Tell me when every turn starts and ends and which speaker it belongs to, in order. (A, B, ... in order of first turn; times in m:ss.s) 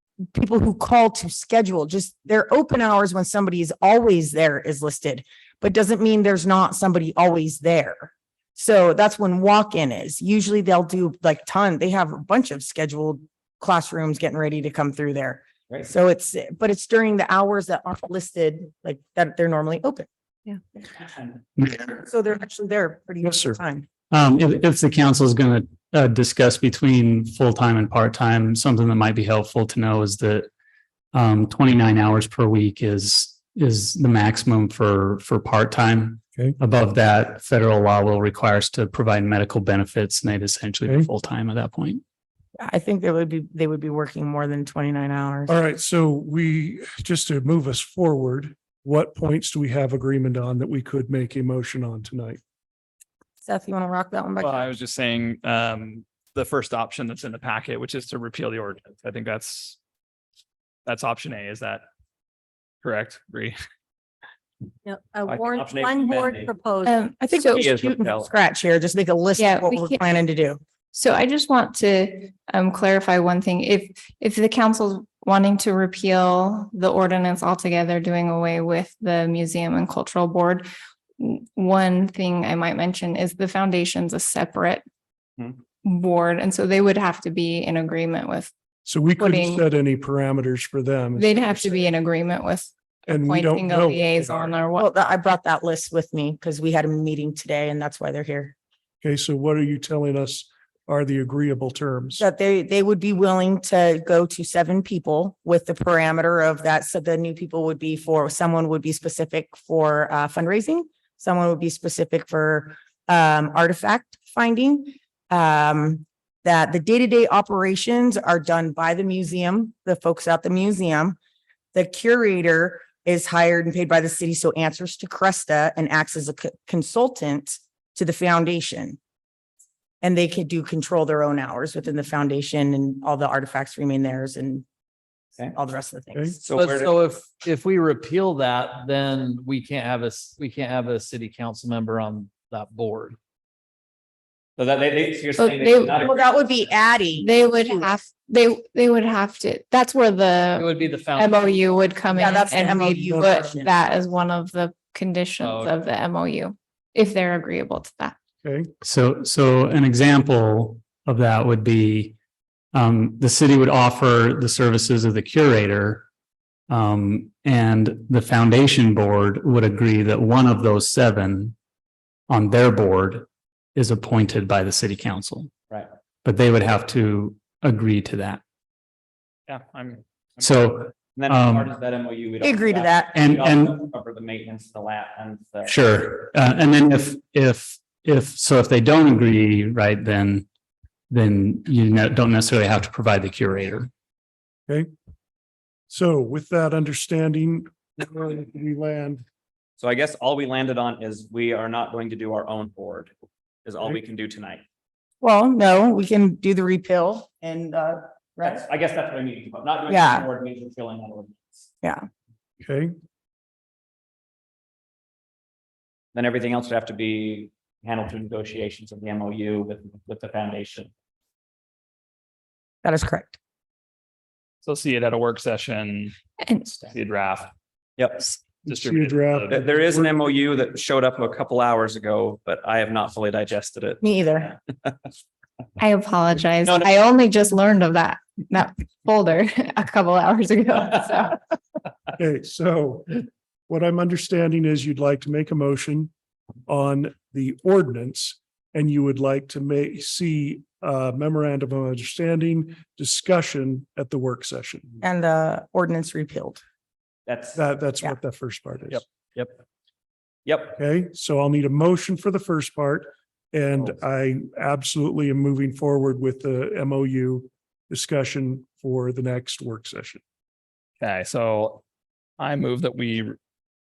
0:00.3-0:20.1 A
0:21.6-0:22.0 B
0:22.0-0:23.9 A
0:23.2-0:23.6 B
0:24.1-0:30.5 B
0:31.1-0:42.0 B
0:42.6-0:45.6 A
0:45.5-0:52.4 C
0:53.4-0:54.7 A
0:54.4-0:59.8 D
1:00.9-1:01.8 D
1:02.8-1:03.6 D
1:04.8-1:07.1 E
1:05.3-1:06.5 F
1:06.9-1:07.6 G
1:07.2-1:10.6 A
1:07.5-1:08.3 F
1:09.4-1:10.0 G
1:10.9-1:20.6 G
1:21.2-1:24.8 G
1:25.8-1:28.5 G
1:28.9-1:31.8 C
1:29.2-1:29.6 G
1:31.2-1:34.9 G
1:33.1-1:34.6 C
1:34.8-1:38.6 A
1:39.0-1:42.2 C
1:42.2-2:01.2 A
2:01.7-2:09.0 A
2:10.0-2:14.6 A
2:15.5-2:16.4 A
2:16.4-2:16.9 F
2:16.5-2:23.2 H
2:24.6-2:26.2 F
2:25.4-2:26.0 G
2:26.0-2:27.3 A
2:27.2-2:38.2 G
2:30.6-2:31.5 H
2:32.1-2:33.7 A
2:35.4-2:35.8 H
2:38.4-2:38.7 C
2:38.8-2:42.2 B
2:42.7-2:46.1 B
2:46.7-2:51.5 B
2:52.3-2:55.5 B
2:56.2-2:58.4 B
2:59.5-3:00.4 D
3:00.4-3:01.7 B
3:01.2-3:05.7 F
3:02.4-3:03.2 A
3:03.1-3:03.9 B
3:05.7-3:10.5 B
3:11.1-3:13.9 B
3:15.9-3:19.2 C
3:19.8-3:23.1 F
3:23.7-3:24.6 F
3:25.2-3:28.7 A
3:28.4-3:31.6 F
3:29.9-3:30.3 A
3:32.6-3:33.0 C
3:36.2-3:40.9 F
3:42.8-3:43.4 A
3:44.6-3:46.2 D
3:46.4-3:46.7 G
3:46.7-3:47.5 D
3:48.0-3:48.2 F
3:48.6-3:50.2 C
3:48.6-3:49.7 D
3:49.5-3:54.0 F
3:54.0-3:54.5 A
3:55.8-4:01.4 G
4:02.2-4:06.1 C
4:06.7-4:15.0 C
4:15.0-4:16.6 A
4:17.3-4:17.6 F
4:17.6-4:19.0 C
4:20.5-4:20.8 F
4:20.8-4:30.2 C
4:31.0-4:31.8 D
4:32.4-4:33.4 D